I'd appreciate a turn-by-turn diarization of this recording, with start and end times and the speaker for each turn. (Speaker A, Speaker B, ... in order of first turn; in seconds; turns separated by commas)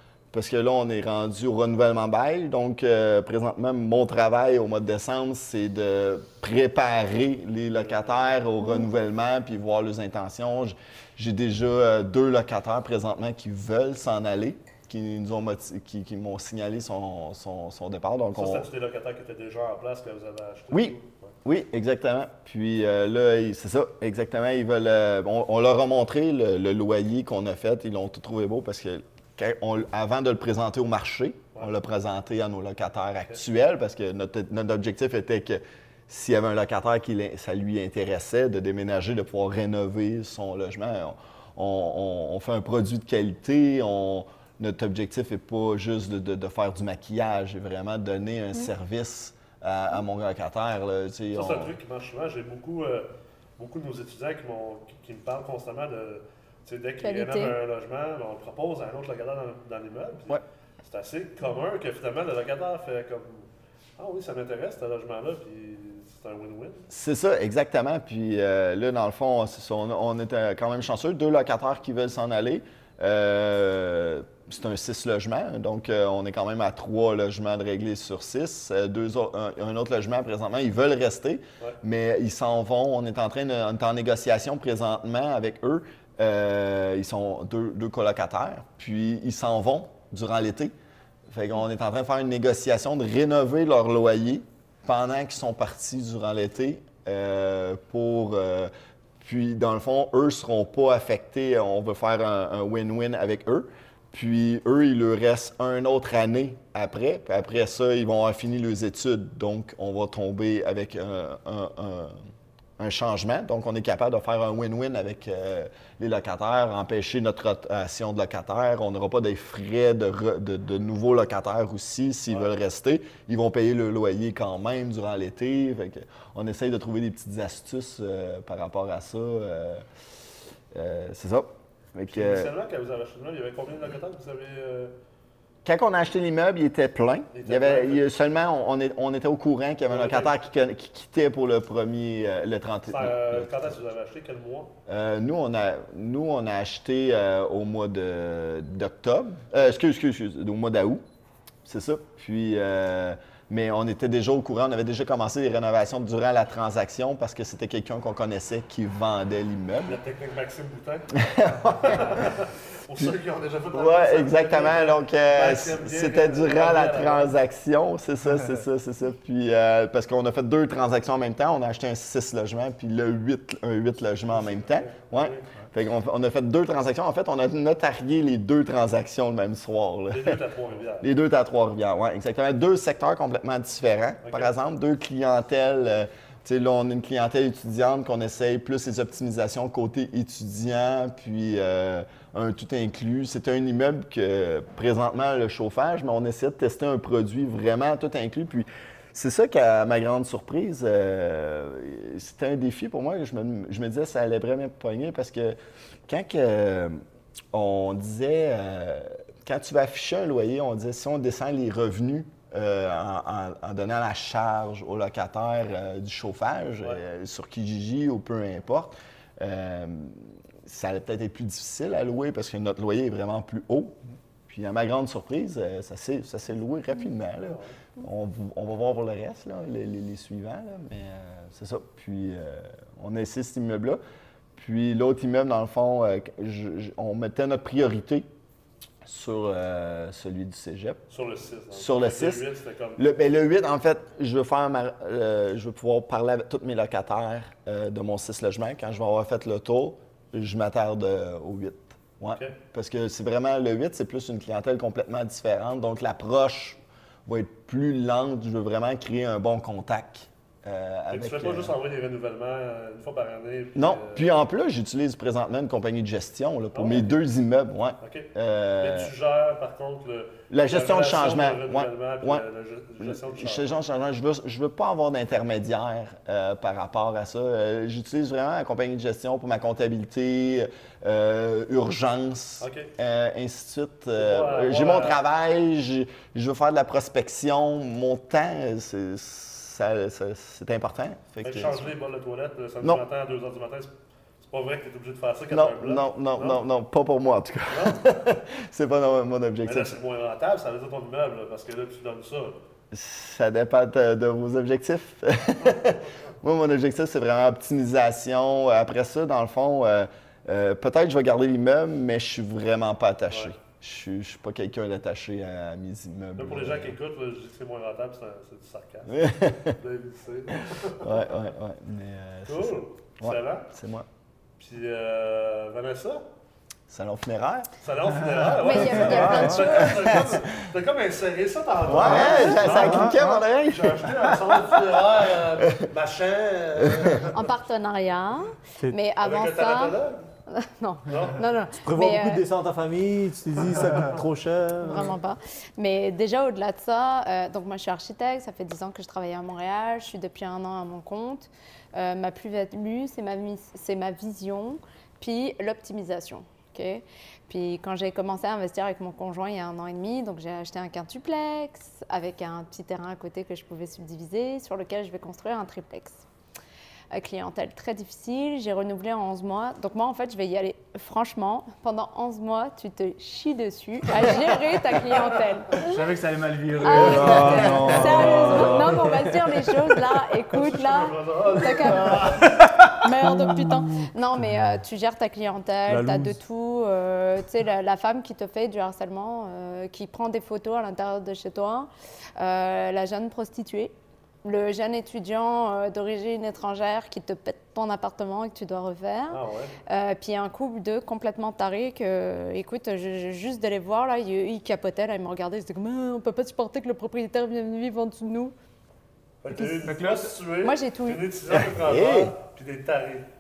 Speaker A: 0.3-18.7, Speaker B: 18.3-21.3, Speaker A: 20.7-51.7, Speaker B: 51.3-63.5, Speaker C: 57.0-57.6, Speaker B: 64.0-66.9, Speaker A: 66.9-90.7, Speaker A: 91.3-98.7, Speaker A: 99.2-112.2, Speaker A: 112.8-129.8, Speaker A: 130.7-132.5, Speaker B: 132.1-134.9, Speaker A: 135.6-143.6, Speaker B: 137.3-138.0, Speaker B: 139.9-140.3, Speaker B: 142.9-144.7, Speaker A: 144.9-151.0, Speaker A: 151.6-160.0, Speaker B: 159.8-167.3, Speaker A: 161.2-162.3, Speaker A: 163.7-180.4, Speaker B: 174.3-175.4, Speaker B: 180.1-181.1, Speaker A: 181.0-205.6, Speaker B: 184.2-184.5, Speaker A: 206.1-207.0, Speaker A: 207.5-223.9, Speaker A: 224.5-234.0, Speaker B: 227.4-227.7, Speaker A: 234.6-238.2, Speaker A: 239.0-241.0, Speaker B: 241.1-243.1, Speaker A: 241.7-242.4, Speaker A: 243.0-261.8, Speaker B: 261.1-264.3, Speaker A: 263.8-269.1, Speaker B: 266.7-267.1, Speaker B: 268.0-273.8, Speaker A: 270.5-272.4, Speaker A: 273.0-291.9, Speaker B: 282.6-282.9, Speaker B: 284.2-285.2, Speaker B: 291.4-296.6, Speaker A: 295.5-299.9, Speaker B: 297.7-298.0, Speaker B: 299.6-302.6, Speaker A: 302.9-316.9, Speaker B: 316.4-321.3, Speaker A: 319.1-319.8, Speaker A: 320.8-324.1, Speaker B: 322.4-323.7, Speaker B: 324.6-326.2, Speaker A: 326.9-327.7, Speaker B: 327.8-337.5, Speaker C: 328.6-330.3, Speaker A: 328.9-330.4, Speaker D: 328.9-329.7, Speaker A: 331.9-334.8, Speaker D: 332.0-333.2, Speaker E: 332.6-333.4, Speaker A: 335.6-335.9, Speaker A: 336.8-337.2, Speaker C: 337.3-339.9, Speaker B: 339.2-340.2, Speaker C: 340.5-342.4, Speaker B: 341.1-341.4, Speaker E: 341.8-345.1, Speaker C: 344.8-366.2, Speaker C: 367.1-375.9, Speaker D: 375.7-379.3, Speaker C: 376.8-393.9, Speaker A: 376.9-378.6, Speaker E: 377.0-379.2, Speaker B: 380.5-382.6, Speaker E: 381.9-382.4, Speaker E: 383.2-384.1, Speaker E: 385.9-386.4, Speaker C: 394.4-408.5, Speaker B: 399.3-399.8, Speaker B: 409.4-413.3, Speaker C: 409.5-410.0, Speaker D: 409.8-410.3, Speaker C: 410.6-411.2, Speaker A: 411.5-412.3